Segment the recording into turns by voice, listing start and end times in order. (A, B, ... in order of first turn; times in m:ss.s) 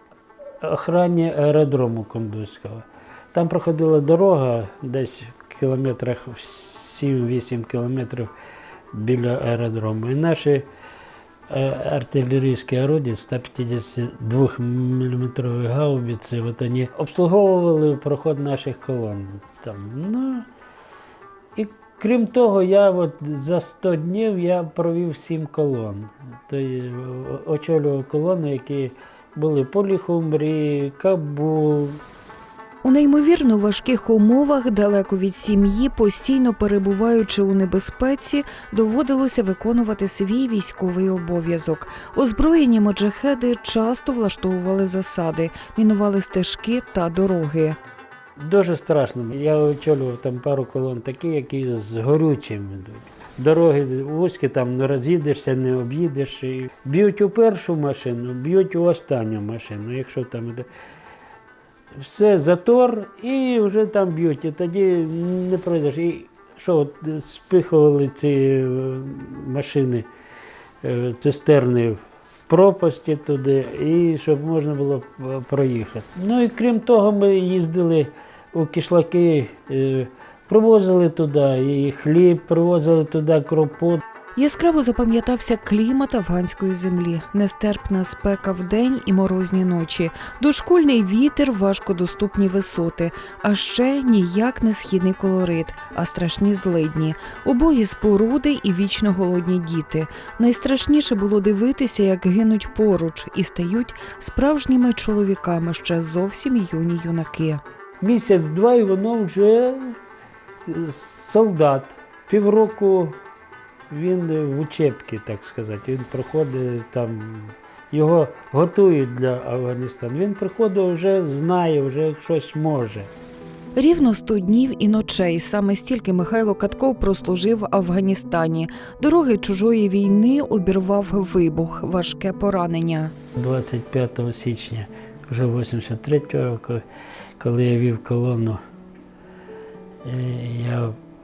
0:00.6-0:08.3 A
0:08.9-0:10.6 A
0:11.5-0:20.5 A
0:21.5-0:32.0 A
0:32.8-0:47.8 B
0:48.4-1:00.7 A
1:02.0-1:10.1 A
1:10.8-1:24.0 A
1:24.4-1:47.6 B
1:48.0-1:50.0 A
1:50.7-1:53.2 A
1:53.9-2:03.1 A
2:03.7-2:13.1 B
2:13.4-2:16.8 A
2:17.4-2:18.6 A
2:20.0-2:21.0 A